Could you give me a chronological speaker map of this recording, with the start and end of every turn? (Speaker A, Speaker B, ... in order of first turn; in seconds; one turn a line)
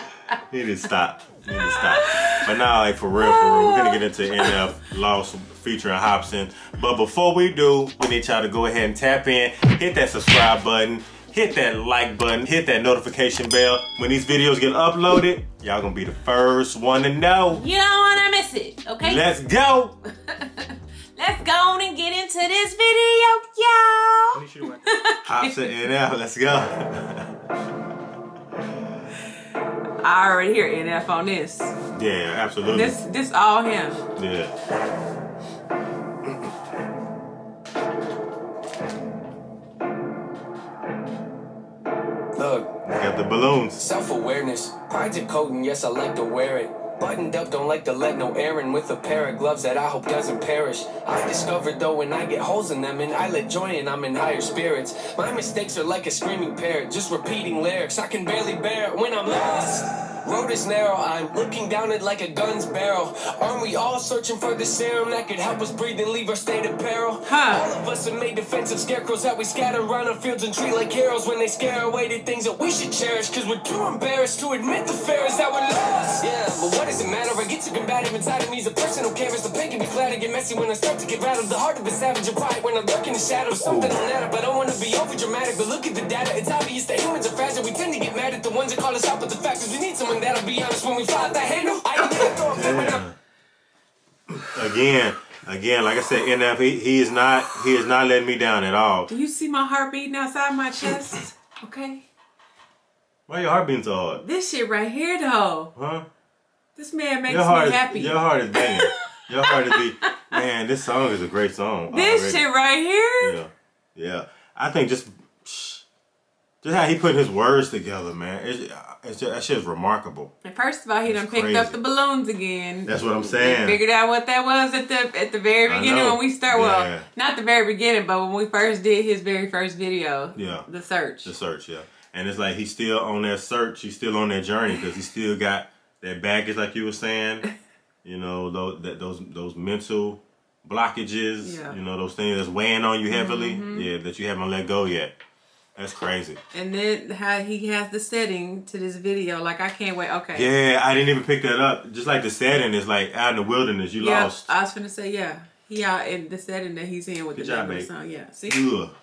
Speaker A: 0.5-17.6
Speaker B: 1.6-2.5
Speaker B: 3.2-4.6
Speaker B: 17.5-19.2
Speaker A: 19.0-20.0
Speaker B: 20.3-25.8
Speaker A: 24.4-27.3
Speaker B: 30.0-31.8
Speaker A: 31.9-33.0
Speaker B: 32.7-34.0
Speaker A: 34.2-34.5
Speaker C: 42.3-42.8
Speaker A: 42.9-43.8
Speaker C: 43.8-93.0
Speaker B: 67.3-67.7
Speaker A: 83.5-84.0
Speaker A: 92.5-93.2
Speaker A: 94.5-99.1
Speaker B: 99.1-102.1
Speaker A: 103.3-104.2
Speaker B: 104.2-105.7
Speaker A: 105.8-106.1
Speaker B: 106.8-110.4
Speaker A: 107.3-112.5
Speaker B: 111.9-113.4
Speaker A: 113.2-115.8
Speaker A: 116.6-120.3
Speaker B: 120.4-131.3
Speaker A: 121.0-121.8
Speaker A: 122.9-123.8
Speaker A: 125.7-127.1
Speaker A: 130.3-130.7
Speaker A: 131.2-137.4
Speaker A: 138.0-145.1
Speaker B: 141.4-141.8
Speaker B: 143.1-143.9
Speaker A: 145.8-146.4
Speaker B: 146.5-150.5
Speaker A: 150.3-154.5
Speaker B: 154.0-158.6
Speaker A: 157.4-157.9
Speaker A: 158.5-158.9